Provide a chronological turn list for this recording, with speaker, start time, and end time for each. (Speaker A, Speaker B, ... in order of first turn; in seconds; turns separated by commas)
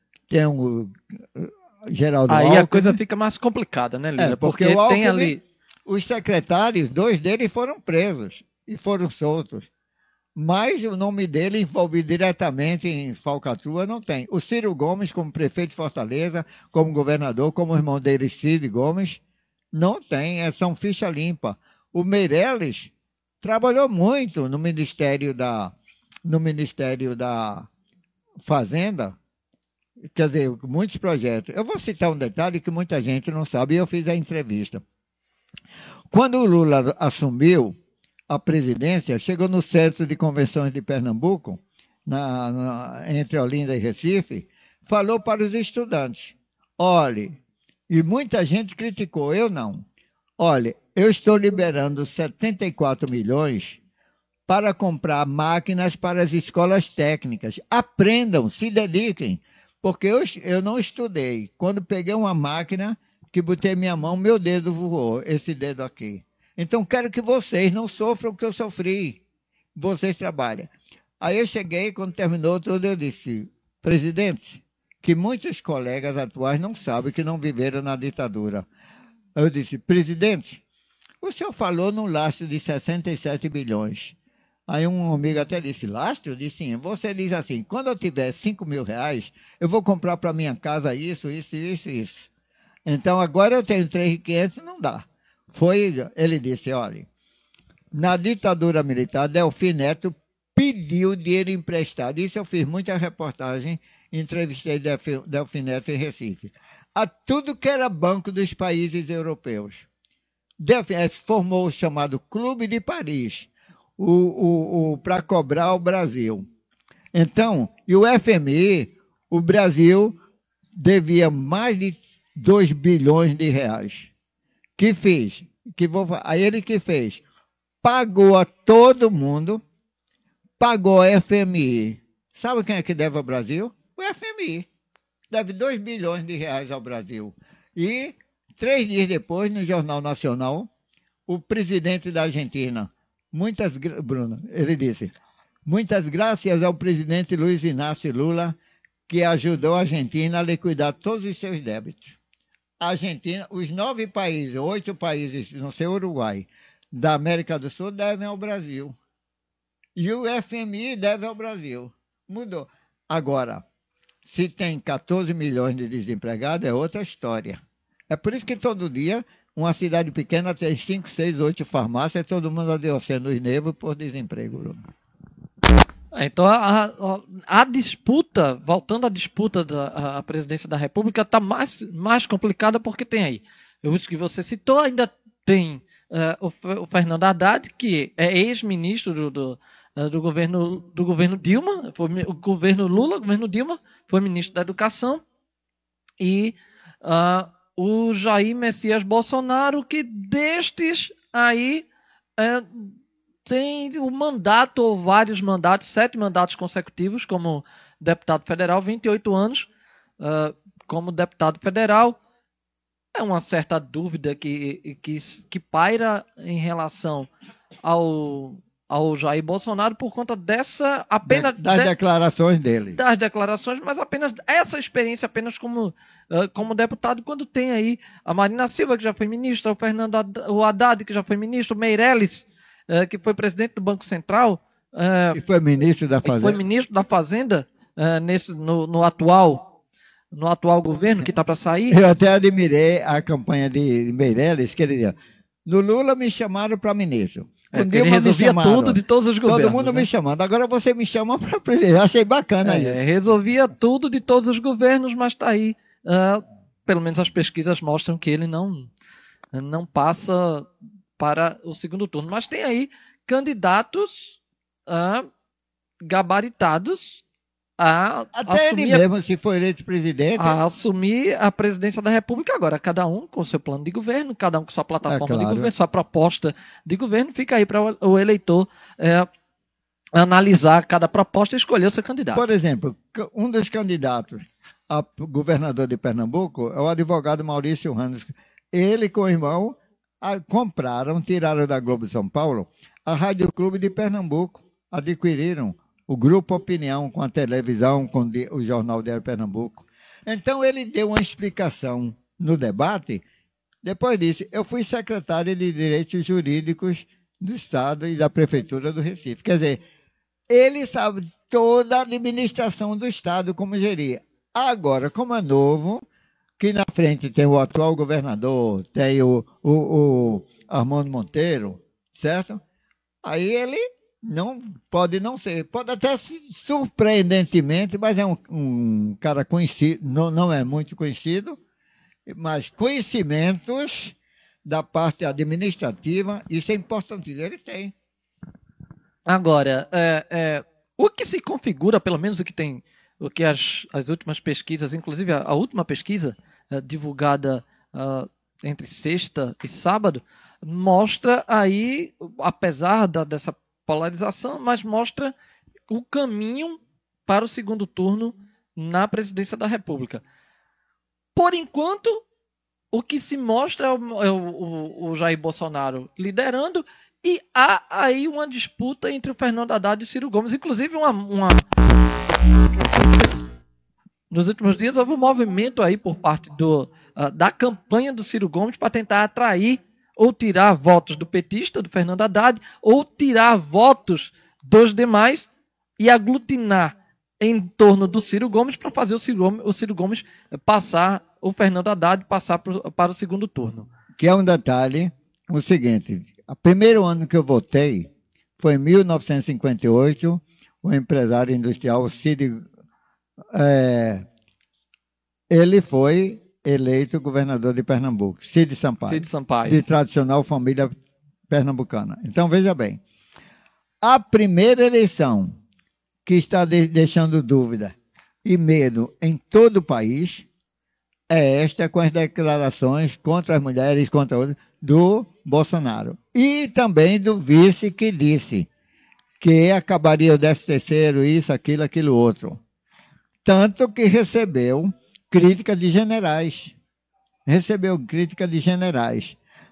Speaker A: 0.3-3.0, Speaker B: 2.3-5.4, Speaker A: 4.2-5.3, Speaker A: 5.9-9.7, Speaker A: 10.4-19.2, Speaker A: 19.7-27.7, Speaker A: 28.4-29.2, Speaker A: 30.1-34.8, Speaker A: 36.1-37.8, Speaker A: 38.3-47.4, Speaker A: 47.9-49.9, Speaker A: 50.4-53.8, Speaker A: 54.5-69.2, Speaker A: 69.8-78.7, Speaker A: 79.4-80.6, Speaker A: 81.2-84.2, Speaker A: 84.7-92.3, Speaker A: 92.9-97.1, Speaker A: 97.9-109.9, Speaker A: 110.6-116.5, Speaker A: 117.1-120.2, Speaker A: 120.8-124.1, Speaker A: 124.8-127.2, Speaker A: 127.8-129.6, Speaker A: 130.6-134.7, Speaker A: 135.3-140.7, Speaker A: 141.3-145.1, Speaker A: 145.7-148.6, Speaker A: 149.1-152.2, Speaker A: 152.8-159.0, Speaker A: 160.0-163.7, Speaker A: 164.3-174.8, Speaker B: 176.1-195.2, Speaker B: 196.2-209.7, Speaker B: 210.2-212.2, Speaker B: 213.1-217.3, Speaker B: 217.8-221.9, Speaker A: 221.3-223.0, Speaker B: 222.9-235.4, Speaker A: 235.3-236.6, Speaker B: 236.2-239.7, Speaker B: 240.3-242.0, Speaker A: 241.9-253.0, Speaker B: 247.7-250.1, Speaker B: 252.6-258.9, Speaker B: 259.5-265.3, Speaker B: 266.1-267.2, Speaker B: 267.8-269.0, Speaker A: 268.4-270.6, Speaker B: 270.4-279.3, Speaker A: 275.1-275.7, Speaker B: 280.1-282.5, Speaker A: 282.3-303.2, Speaker A: 303.8-309.8, Speaker A: 310.5-316.0, Speaker A: 316.6-322.6, Speaker A: 323.2-331.6, Speaker A: 332.3-337.9, Speaker B: 339.3-355.3, Speaker B: 355.9-360.2, Speaker B: 361.4-362.2, Speaker B: 362.9-371.7, Speaker B: 372.6-373.5, Speaker B: 374.3-393.9, Speaker A: 394.2-402.7, Speaker A: 403.5-404.3, Speaker A: 405.5-410.9, Speaker B: 409.1-409.8, Speaker A: 411.5-413.0, Speaker A: 414.0-415.6, Speaker A: 416.3-420.5, Speaker A: 421.3-428.7, Speaker A: 429.4-432.6, Speaker A: 433.4-436.8, Speaker A: 437.5-439.4